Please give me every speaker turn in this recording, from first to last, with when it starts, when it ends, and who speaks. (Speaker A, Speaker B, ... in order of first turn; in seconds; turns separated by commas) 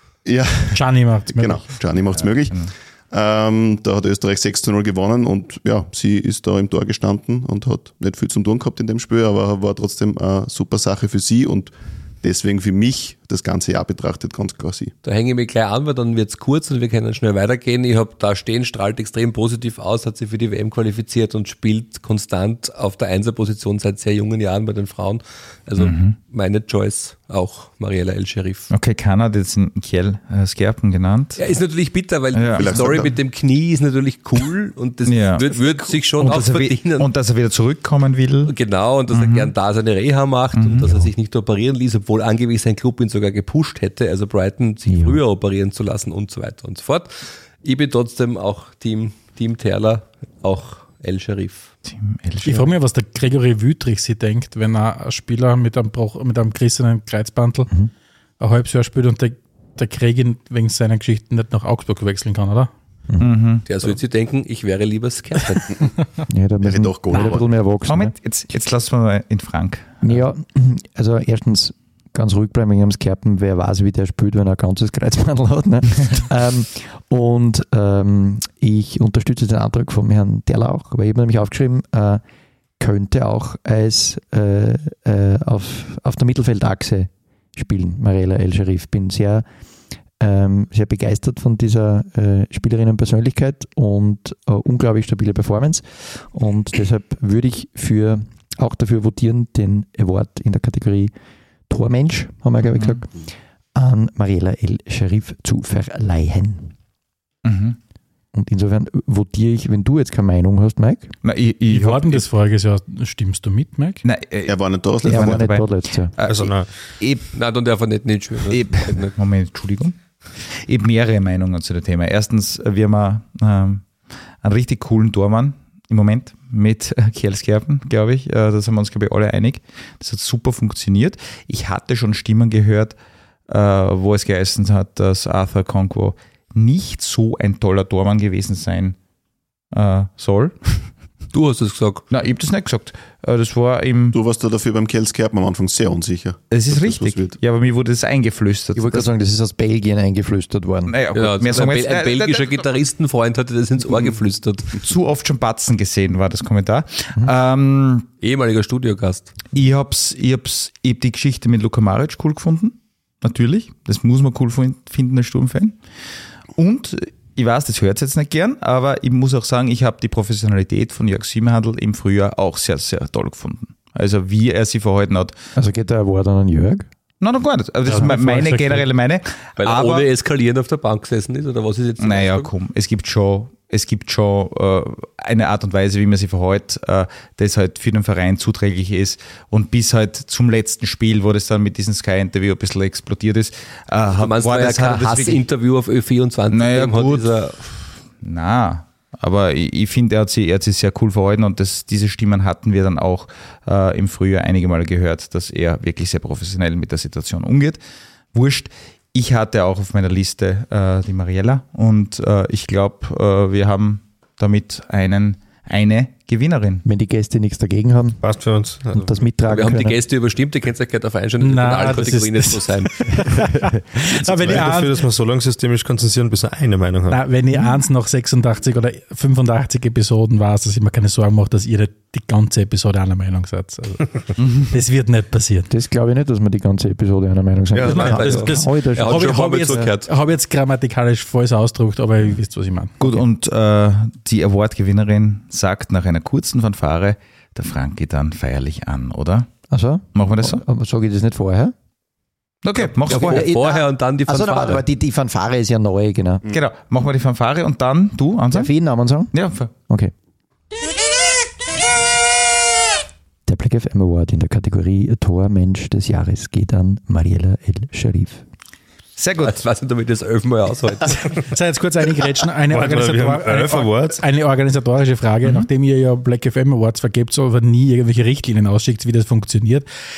Speaker A: 0.2-14.9, Speaker B: 0.7-1.7, Speaker C: 2.1-2.7, Speaker D: 15.0-28.7, Speaker C: 25.8-26.2, Speaker C: 28.7-31.4, Speaker D: 31.4-37.1, Speaker C: 32.3-32.8, Speaker A: 32.5-33.2, Speaker C: 35.0-38.5, Speaker D: 38.5-51.7, Speaker C: 39.1-39.5, Speaker C: 40.5-41.0, Speaker E: 44.9-45.2, Speaker C: 51.9-52.7, Speaker B: 52.4-57.7, Speaker B: 58.4-62.7, Speaker E: 63.1-63.4, Speaker C: 63.2-63.6, Speaker D: 63.6-65.8, Speaker E: 66.3-68.1, Speaker A: 66.6-67.5, Speaker C: 67.9-70.2, Speaker E: 70.0-82.2, Speaker E: 82.8-89.5, Speaker E: 90.2-101.1, Speaker E: 101.7-106.8, Speaker C: 102.8-103.0, Speaker C: 107.4-107.8, Speaker E: 108.3-111.1, Speaker C: 111.2-112.3, Speaker B: 111.7-114.0, Speaker C: 114.0-117.3, Speaker A: 114.5-115.6, Speaker E: 115.0-116.2, Speaker F: 116.2-116.8, Speaker D: 117.3-119.1, Speaker C: 118.5-123.9, Speaker C: 124.4-133.0, Speaker C: 133.5-139.0, Speaker C: 139.7-140.9, Speaker D: 141.3-142.1, Speaker C: 142.1-144.2, Speaker A: 144.1-147.4, Speaker C: 146.5-149.1, Speaker E: 148.8-150.9, Speaker C: 150.9-152.5, Speaker D: 151.1-154.8, Speaker C: 154.8-158.1, Speaker D: 158.2-159.3, Speaker C: 159.5-165.8, Speaker C: 166.5-175.4, Speaker E: 175.6-176.9, Speaker C: 177.2-180.1, Speaker B: 177.9-178.8, Speaker D: 179.6-182.5, Speaker C: 182.0-195.4, Speaker D: 194.2-197.6, Speaker C: 196.5-207.8, Speaker C: 208.3-216.8, Speaker E: 216.8-218.2, Speaker F: 218.2-219.3, Speaker E: 218.9-220.0, Speaker D: 219.5-223.3, Speaker B: 221.4-224.9, Speaker F: 224.3-227.2, Speaker B: 227.1-235.7, Speaker C: 234.4-234.7, Speaker E: 235.7-239.9, Speaker F: 237.7-238.2, Speaker D: 237.8-240.1, Speaker B: 237.9-242.9, Speaker C: 243.0-249.5, Speaker E: 249.7-251.7, Speaker C: 250.1-250.6, Speaker C: 252.6-253.5, Speaker D: 253.1-254.8, Speaker E: 253.1-256.4, Speaker C: 256.5-258.7, Speaker E: 258.5-260.1, Speaker C: 259.3-259.7, Speaker E: 263.5-268.4, Speaker C: 269.2-269.6, Speaker D: 269.4-271.4, Speaker B: 271.4-279.9, Speaker F: 272.7-274.2